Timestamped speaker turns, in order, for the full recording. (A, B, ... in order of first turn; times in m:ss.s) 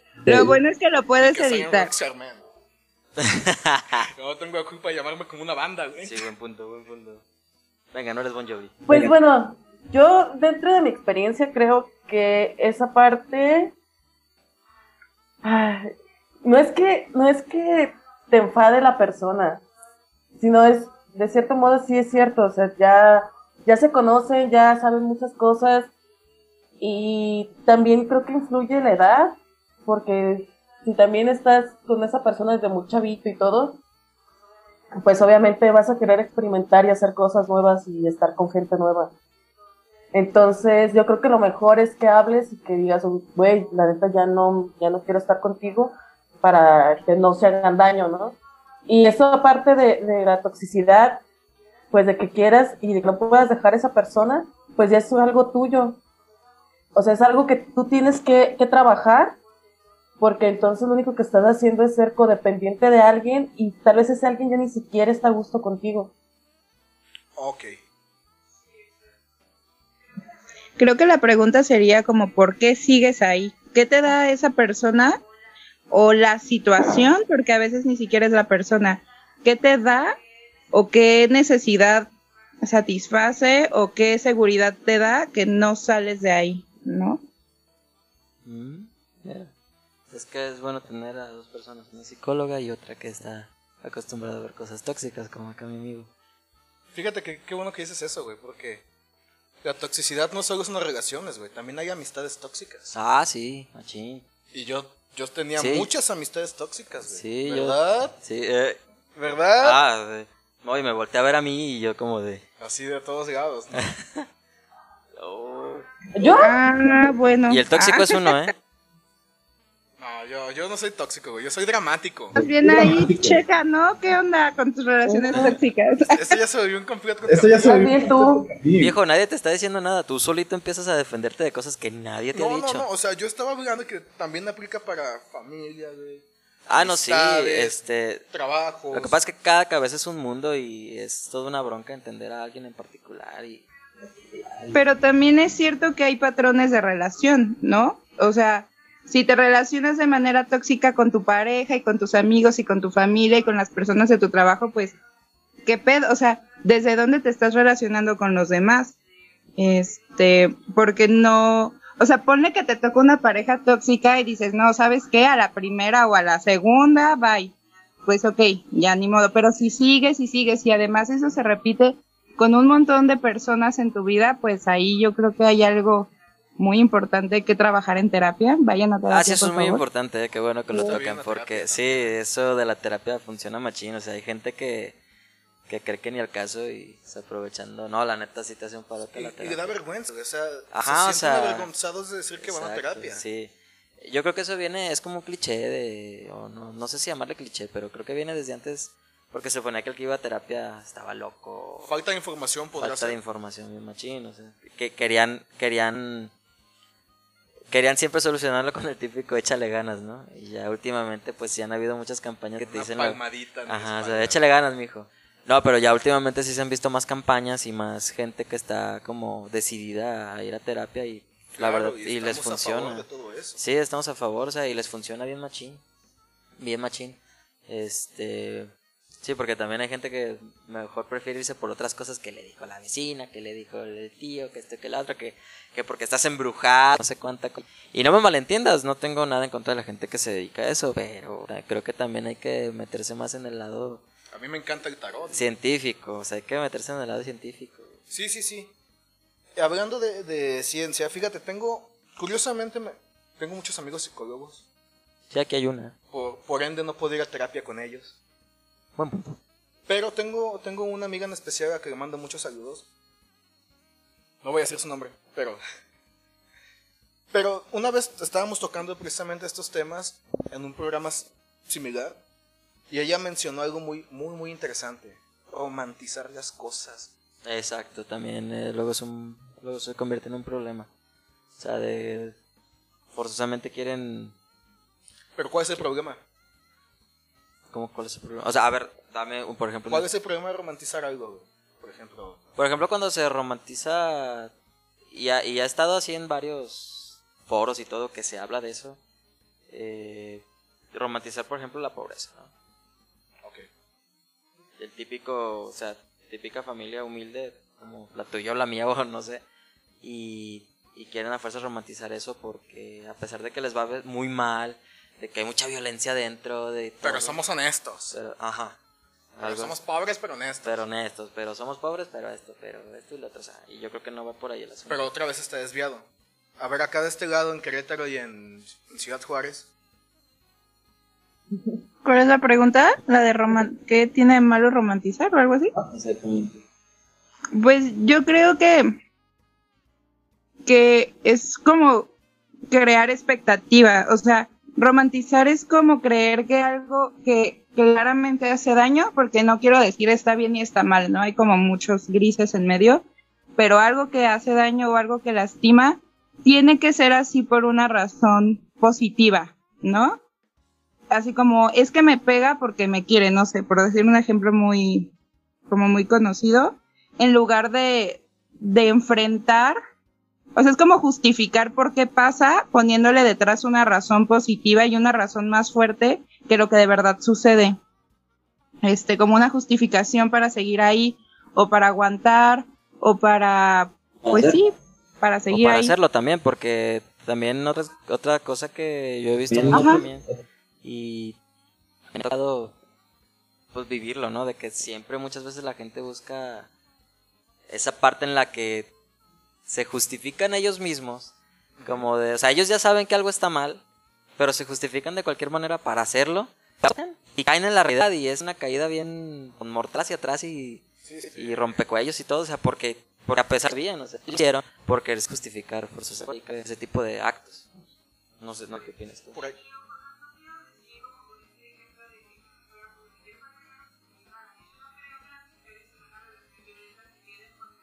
0:00.2-0:00.6 A
0:00.3-0:01.9 B
0:01.2-0:02.4 C
0:03.2-0:04.1 D
0:04.1-0:06.3 C
0:06.0-0:07.2 D
0:07.9-0:08.8 D
0:08.9-0:13.7 E
0:15.4-0:15.9 E
0:16.4-0:19.6 E
0:20.4-0:25.9 E
0:26.8-0:33.8 E
0:35.0-0:39.1 E
0:40.1-0:51.2 E
0:51.9-0:56.0 E
0:57.0-0:59.4 E
1:00.2-1:06.1 E
1:07.4-1:07.7 C
1:10.8-1:15.2 B
1:15.9-1:20.2 B
1:20.7-1:22.1 B
1:22.6-1:27.2 B
1:28.4-1:29.5 D
1:30.1-1:36.1 D
1:36.9-1:38.8 C
1:39.6-1:42.9 C
1:42.9-1:44.2 D
1:44.5-1:48.2 C
1:45.6-1:45.9 D
1:47.1-1:48.8 D
1:49.2-1:49.8 C
1:49.6-1:52.4 D
1:52.6-1:53.8 C
1:53.8-1:54.2 D
1:55.2-1:55.9 D
1:56.2-1:56.6 E
1:56.4-1:58.4 B
1:57.5-1:58.5 D
2:00.0-2:02.4 C
2:02.4-2:06.4 B
2:02.4-2:03.4 A
2:05.1-2:05.6 E
2:06.1-2:08.6 C
2:07.3-2:07.6 A
2:07.6-2:08.5 E
2:08.8-2:12.9 D
2:12.3-2:17.8 C
2:16.7-2:18.2 D
2:18.3-2:19.2 C
2:18.9-2:23.6 D
2:24.7-2:35.0 B
2:35.6-2:39.0 B
2:39.6-2:47.5 B
2:48.1-2:59.8 B
2:59.1-3:05.0 D
3:00.8-3:02.1 C
3:05.7-3:09.7 D
3:09.1-3:13.2 C
3:10.7-3:11.7 D
3:12.4-3:21.9 D
3:21.8-3:23.2 C
3:22.8-3:26.3 D
3:27.7-3:43.0 D
3:32.6-3:34.4 C
3:41.6-3:43.6 C
3:43.6-3:45.8 D
3:46.6-3:48.7 D
3:49.2-4:04.0 D
4:04.3-4:05.4 C
4:05.3-4:08.0 D
4:08.1-4:08.7 C
4:09.6-4:14.6 C
4:15.3-4:15.9 D
4:16.1-4:18.2 C
4:19.0-4:19.4 D
4:19.9-4:22.9 C
4:24.4-4:25.6 C
4:27.3-4:32.2 C
4:32.9-4:37.1 C
4:37.4-4:40.9 D
4:41.6-4:42.4 D
4:43.1-4:44.3 D
4:45.4-4:46.2 C
4:47.7-4:50.1 D
4:49.9-4:52.4 C
4:52.6-4:54.5 D
4:55.1-4:59.0 D
4:59.7-5:02.5 D
5:03.4-5:03.7 C
5:04.8-5:09.4 D
5:10.0-5:17.4 D
5:17.0-5:18.1 C
5:18.1-5:18.8 D
5:19.4-5:19.8 D
5:19.4-5:20.8 C
5:20.6-5:25.1 D
5:24.9-5:26.1 C
5:26.6-5:29.7 C
5:32.0-5:35.7 B
5:35.7-5:36.6 A
5:37.5-5:38.9 B
5:40.7-5:42.1 B
5:42.7-5:53.0 B
5:53.6-6:00.2 B
6:01.1-6:05.1 B
6:05.7-6:09.8 B
6:10.6-6:17.8 B
6:18.8-6:25.9 B
6:24.2-6:24.6 A
6:25.5-6:30.2 D
6:29.5-6:30.4 A
6:29.7-6:30.0 B
6:30.8-6:31.4 D
6:32.1-6:32.7 D
6:33.7-6:36.7 D
6:37.7-6:38.9 D
6:39.7-6:41.3 D
6:41.8-6:42.1 C
6:41.8-6:43.8 D
6:44.4-6:50.8 D
6:51.0-6:51.6 C
6:51.4-6:57.7 D
6:58.4-6:59.4 D